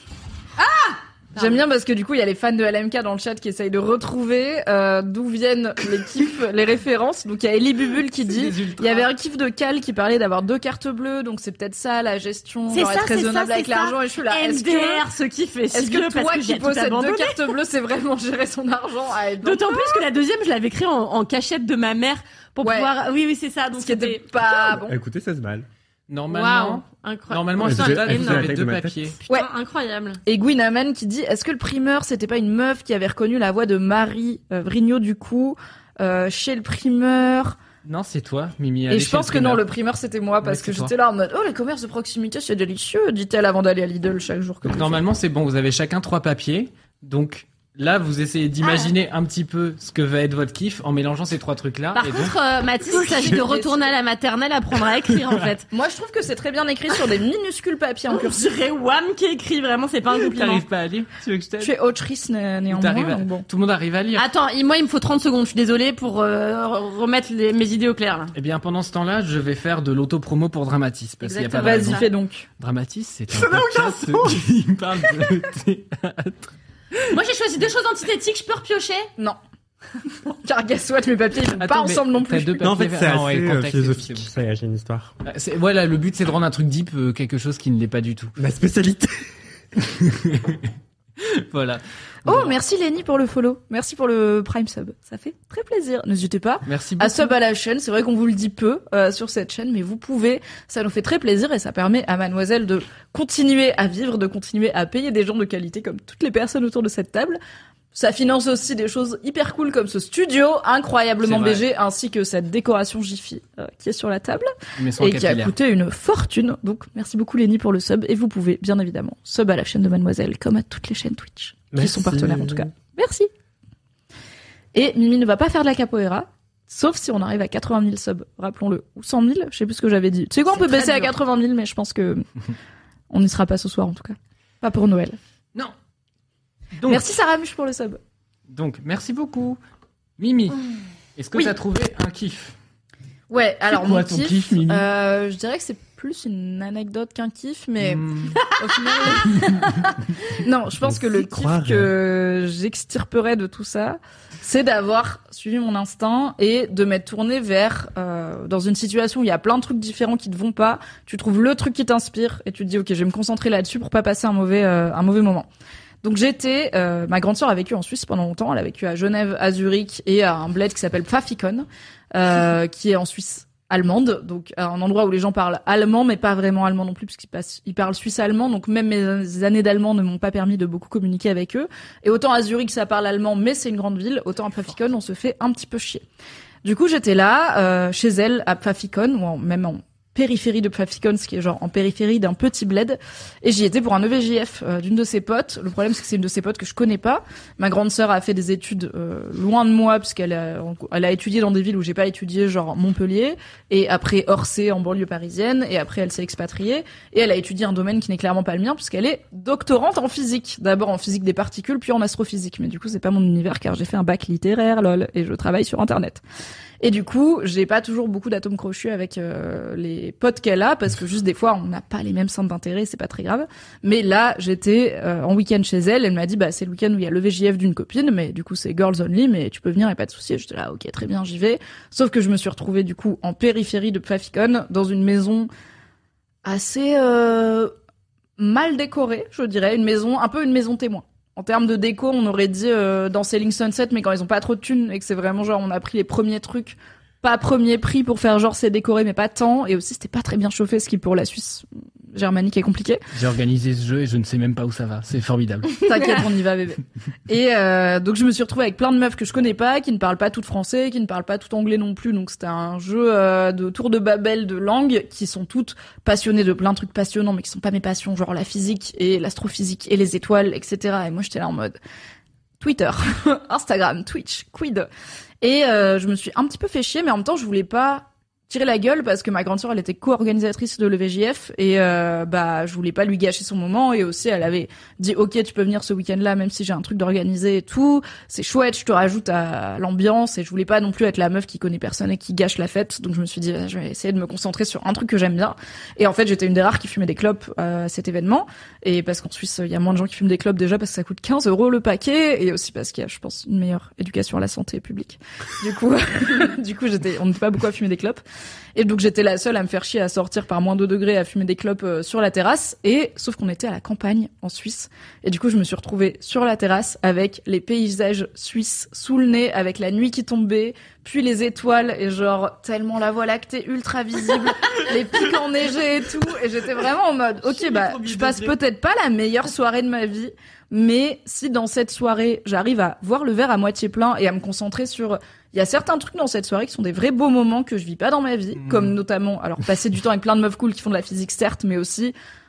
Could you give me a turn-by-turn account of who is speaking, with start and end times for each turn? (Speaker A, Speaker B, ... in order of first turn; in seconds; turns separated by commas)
Speaker A: 0.6-15.0, Speaker B: 1.4-1.6, Speaker C: 8.2-9.1, Speaker B: 12.7-17.4, Speaker A: 15.7-20.0, Speaker B: 19.4-24.7, Speaker A: 22.6-22.9, Speaker A: 23.8-24.9, Speaker D: 24.7-25.7, Speaker C: 26.1-29.2, Speaker B: 26.3-28.5, Speaker D: 27.6-29.1, Speaker B: 29.2-30.2, Speaker A: 30.2-37.6, Speaker C: 37.8-39.6, Speaker A: 38.9-45.0, Speaker C: 40.4-40.9, Speaker C: 44.6-52.3, Speaker B: 48.6-48.9, Speaker B: 51.9-55.7, Speaker A: 52.9-53.9, Speaker A: 55.7-58.4, Speaker B: 58.1-60.6, Speaker C: 60.1-61.7, Speaker A: 61.6-63.4, Speaker C: 62.7-64.2, Speaker B: 64.2-68.3, Speaker C: 68.3-72.0, Speaker B: 71.2-72.1, Speaker A: 71.6-72.4, Speaker C: 72.6-77.0, Speaker D: 73.3-74.4, Speaker B: 77.1-79.1, Speaker A: 80.3-82.6, Speaker C: 81.5-84.3, Speaker D: 82.6-85.1, Speaker C: 85.2-88.3, Speaker D: 88.4-89.3, Speaker C: 89.8-90.7, Speaker C: 91.2-92.5, Speaker A: 92.2-107.4, Speaker C: 96.7-97.3, Speaker A: 107.9-123.3, Speaker C: 111.2-111.6, Speaker C: 114.8-115.5, Speaker D: 121.7-122.7, Speaker A: 124.7-132.2, Speaker B: 130.5-131.1, Speaker A: 133.1-135.2, Speaker C: 136.7-137.1, Speaker A: 136.9-138.0, Speaker C: 138.5-139.6, Speaker C: 140.2-140.6, Speaker C: 141.2-142.5, Speaker A: 143.3-149.7, Speaker C: 143.7-144.8, Speaker C: 147.8-148.4, Speaker B: 148.6-149.6, Speaker A: 150.3-165.5, Speaker D: 150.8-151.9, Speaker A: 166.0-186.0, Speaker A: 186.6-216.2, Speaker A: 216.8-235.5, Speaker A: 236.4-237.7, Speaker A: 238.4-253.0, Speaker C: 253.1-255.7, Speaker A: 255.8-271.8, Speaker B: 255.9-256.2, Speaker A: 272.6-274.9, Speaker A: 275.4-308.2, Speaker A: 308.8-342.1, Speaker C: 327.4-328.6, Speaker C: 338.6-339.0